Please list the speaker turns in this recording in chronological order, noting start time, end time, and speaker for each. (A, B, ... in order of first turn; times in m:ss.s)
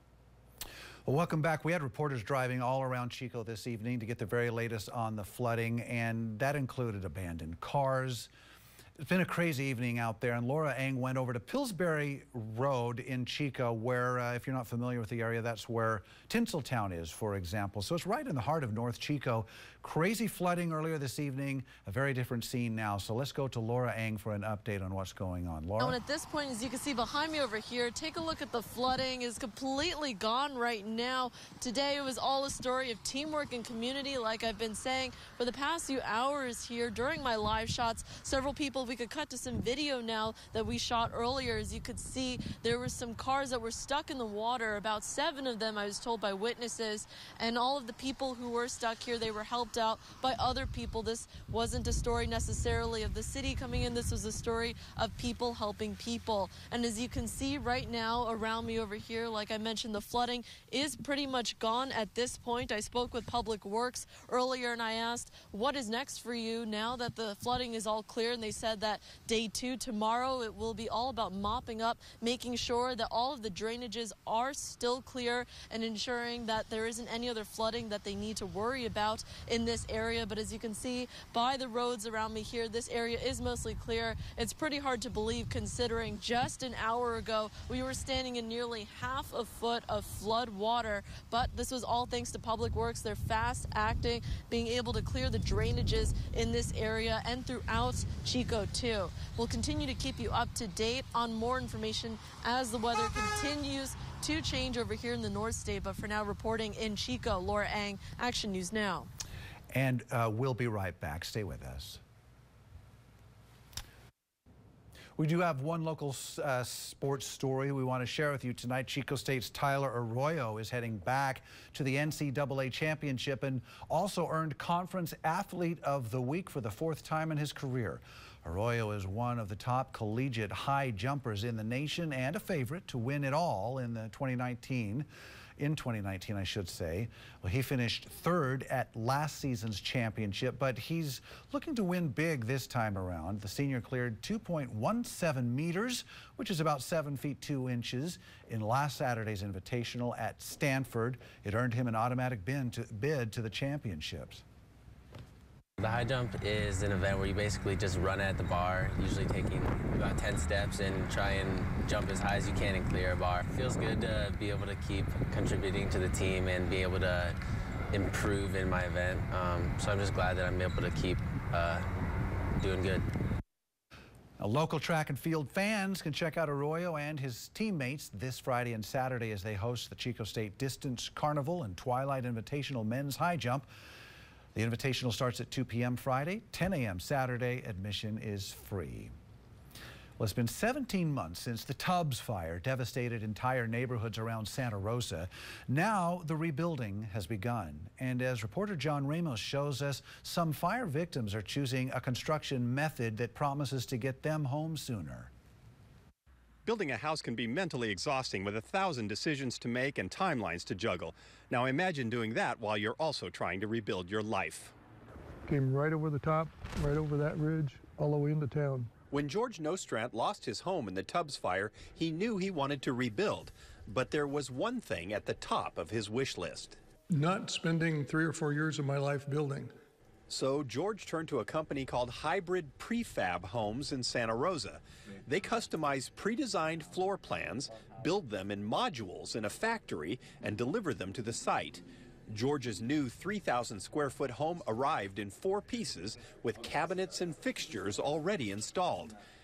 0:01.1-0:08.3 A
0:09.0-0:26.0 A
0:25.8-1:49.1 B
1:49.7-1:52.0 A
1:55.2-2:34.4 A
2:35.8-2:47.4 C
2:47.9-2:51.9 C
2:52.6-2:53.1 C
2:54.4-3:03.7 A
3:04.6-3:09.1 A
3:10.2-3:25.3 A
3:26.6-3:34.7 D
3:35.5-3:38.9 E
3:39.1-3:46.8 D
3:47.1-3:49.8 E
3:50.3-4:09.2 D